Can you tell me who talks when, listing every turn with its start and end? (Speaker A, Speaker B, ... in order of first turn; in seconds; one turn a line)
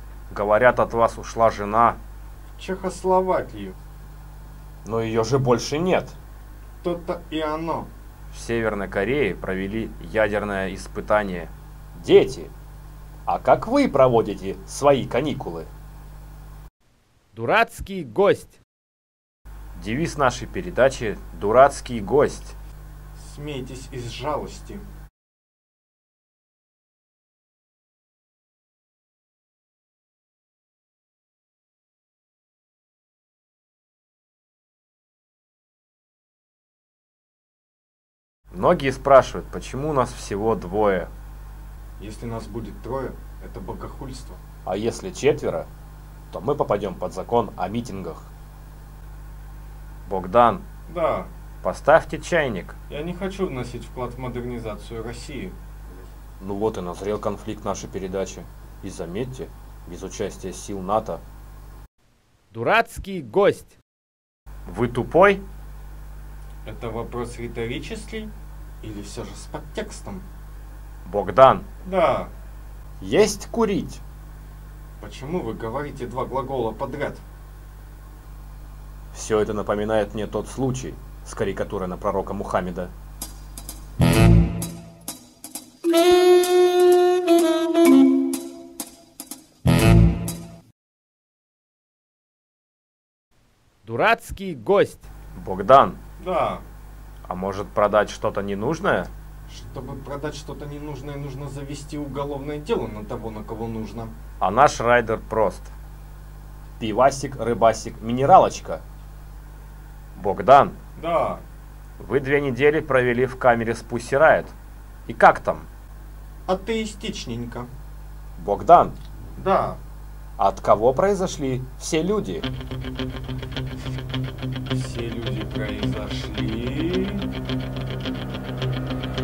Speaker A: 0.3-2.0
Speaker B: 2.5-3.7
Speaker A: 4.8-6.2
Speaker B: 6.8-7.9
Speaker A: 8.3-12.5
Speaker A: 13.3-15.7
Speaker C: 17.3-18.6
Speaker A: 19.8-22.5
Speaker B: 23.1-24.9
Speaker A: 38.5-41.1
Speaker B: 42.0-44.4
Speaker A: 44.6-45.7
Speaker A: 46.3-48.3
Speaker A: 50.0-50.6
Speaker B: 50.9-51.3
Speaker A: 51.6-52.7
Speaker B: 52.9-55.5
Speaker A: 56.4-61.2
Speaker C: 62.5-63.7
Speaker A: 64.7-65.4
Speaker B: 66.7-70.3
Speaker A: 71.0-71.7
Speaker B: 71.8-72.3
Speaker A: 73.0-74.0
Speaker B: 75.0-77.2
Speaker A: 79.1-82.9
Speaker C: 93.8-95.0
Speaker A: 95.3-96.0
Speaker B: 96.2-96.6
Speaker A: 97.3-99.1
Speaker B: 99.5-104.2
Speaker A: 104.4-105.7
Speaker A: 106.8-108.8
Speaker A: 110.2-110.8
Speaker B: 111.0-111.4
Speaker A: 112.0-114.5
Speaker A: 115.1-115.7
Speaker B: 116.5-117.7
Speaker A: 118.4-119.0
Speaker B: 119.4-119.8
Speaker A: 120.4-122.5
Speaker B: 124.7-127.2